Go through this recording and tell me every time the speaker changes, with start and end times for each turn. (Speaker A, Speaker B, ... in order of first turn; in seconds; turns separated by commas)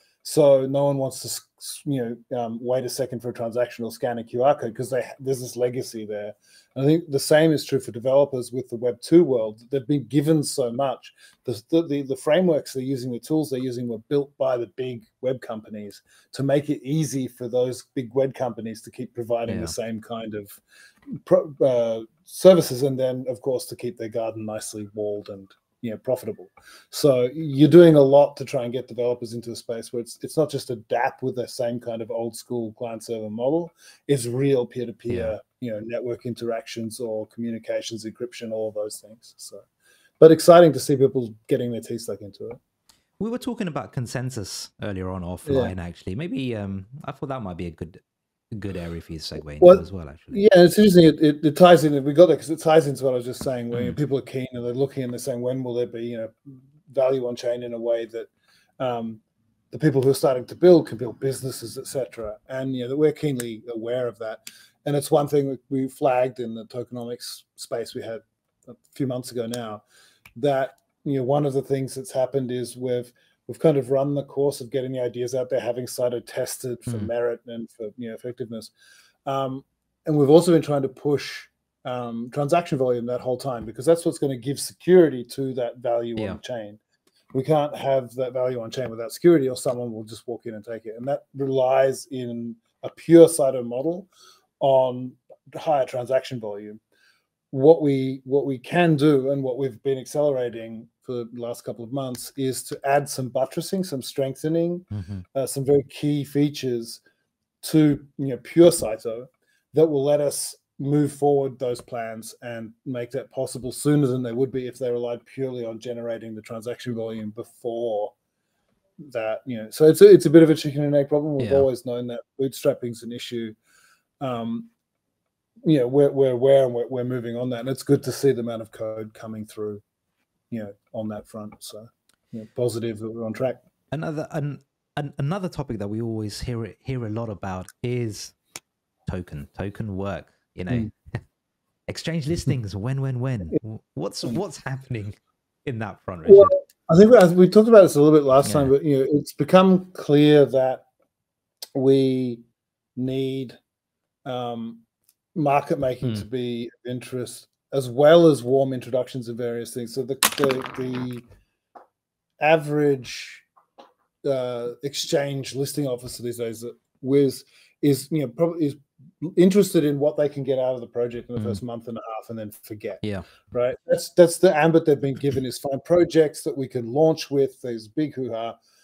Speaker A: 0.2-20.6, Speaker B: 19.5-19.8, Speaker A: 21.1-39.7, Speaker B: 35.1-35.4, Speaker A: 40.2-42.6, Speaker B: 43.2-50.4, Speaker A: 45.5-45.7, Speaker A: 49.6-56.4, Speaker A: 56.9-69.8, Speaker A: 70.4-78.7, Speaker A: 79.3-86.8, Speaker A: 87.3-94.1, Speaker A: 94.6-96.8, Speaker A: 97.5-107.0, Speaker B: 104.9-105.2, Speaker A: 107.6-118.1, Speaker A: 119.0-123.6, Speaker B: 121.4-121.7, Speaker A: 124.2-124.7, Speaker A: 125.6-129.8, Speaker A: 130.5-133.6, Speaker B: 133.9-138.3, Speaker B: 139.1-140.9, Speaker B: 141.9-146.5, Speaker A: 146.3-150.8, Speaker B: 148.4-148.7, Speaker A: 151.8-152.4, Speaker A: 153.0-153.6, Speaker A: 154.2-154.8, Speaker A: 155.3-161.2, Speaker A: 162.4-163.4, Speaker A: 164.2-178.6, Speaker B: 173.0-173.3